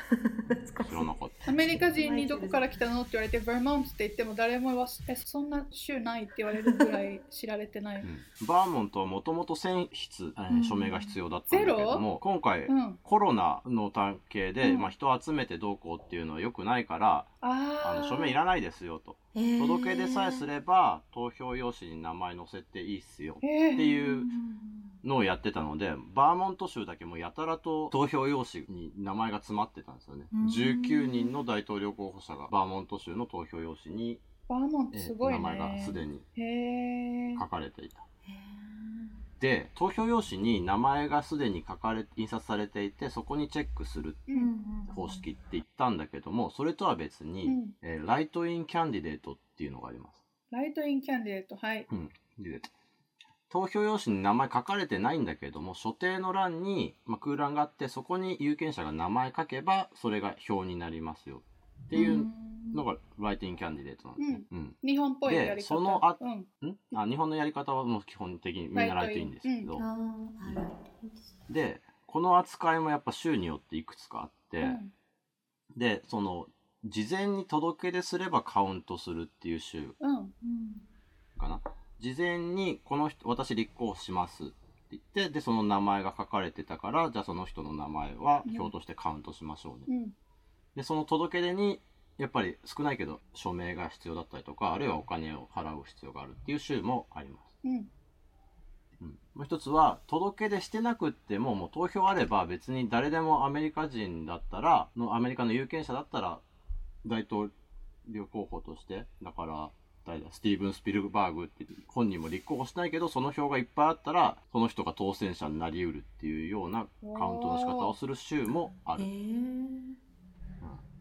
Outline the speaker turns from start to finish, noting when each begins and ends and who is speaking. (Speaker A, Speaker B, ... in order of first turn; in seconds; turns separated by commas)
Speaker A: 0.1-2.7, Speaker B: 0.8-1.4, Speaker C: 1.5-8.1, Speaker B: 8.0-17.3, Speaker A: 10.5-11.2, Speaker C: 11.5-12.0, Speaker C: 12.7-13.0, Speaker C: 14.6-14.9, Speaker C: 17.4-18.3, Speaker B: 17.8-24.3, Speaker A: 19.3-20.5, Speaker C: 23.4-23.9, Speaker A: 23.8-24.9, Speaker B: 25.0-34.2, Speaker A: 30.3-31.4, Speaker C: 34.5-37.4, Speaker B: 34.9-36.2, Speaker B: 37.4-38.0, Speaker A: 38.2-39.2, Speaker B: 39.4-44.2, Speaker A: 44.3-45.2, Speaker B: 44.9-50.2, Speaker C: 47.4-47.7, Speaker C: 50.5-51.9, Speaker B: 51.9-52.7, Speaker B: 53.5-69.8, Speaker A: 61.9-62.8, Speaker C: 64.2-67.0, Speaker C: 68.7-69.7, Speaker A: 69.8-71.3, Speaker B: 71.5-74.8, Speaker C: 74.6-74.9, Speaker B: 75.7-80.0, Speaker C: 80.0-80.3, Speaker A: 80.4-80.8, Speaker B: 81.3-89.9, Speaker C: 88.4-88.7, Speaker C: 89.9-90.1, Speaker B: 90.7-97.5, Speaker C: 97.6-97.9, Speaker B: 99.0-106.4, Speaker B: 107.0-107.5, Speaker B: 108.0-119.1, Speaker C: 117.0-117.9, Speaker A: 118.9-120.0